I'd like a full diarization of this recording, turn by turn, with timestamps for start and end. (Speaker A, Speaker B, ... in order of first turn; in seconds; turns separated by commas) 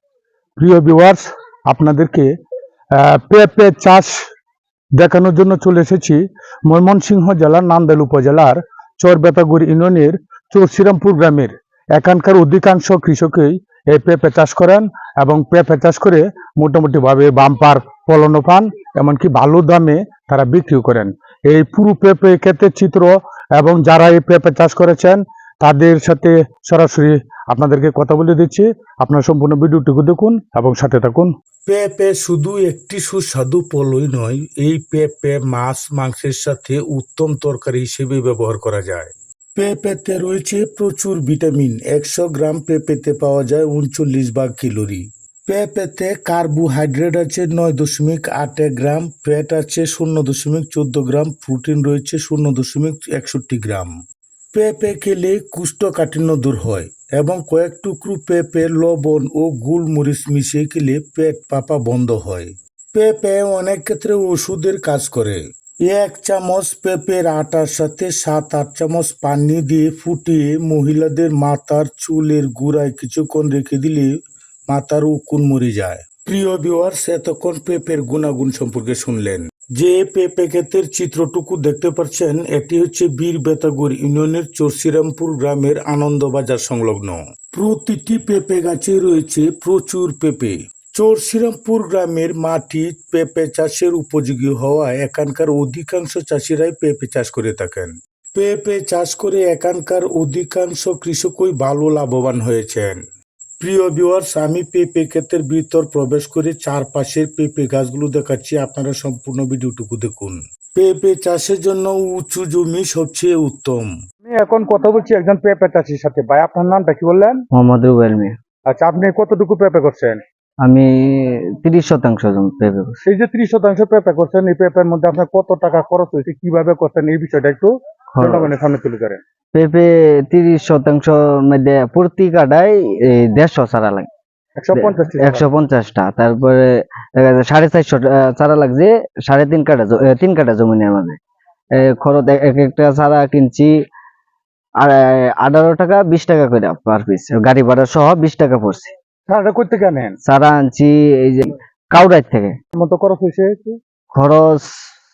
Speaker A: 0.6-2.3, Speaker A: 3.0-4.2, Speaker A: 5.0-31.3, Speaker B: 31.7-53.9, Speaker B: 54.5-74.1, Speaker B: 74.7-103.0, Speaker B: 103.6-113.9, Speaker A: 114.2-117.4, Speaker C: 117.5-118.3, Speaker A: 118.7-120.2, Speaker C: 120.6-123.0, Speaker A: 123.1-129.2, Speaker C: 128.2-128.6, Speaker C: 129.5-134.1, Speaker A: 134.6-135.5, Speaker C: 134.7-141.2, Speaker C: 141.8-143.7, Speaker C: 144.8-148.9, Speaker A: 149.3-150.2, Speaker C: 150.2-152.6, Speaker A: 152.8-153.8, Speaker C: 154.1-154.9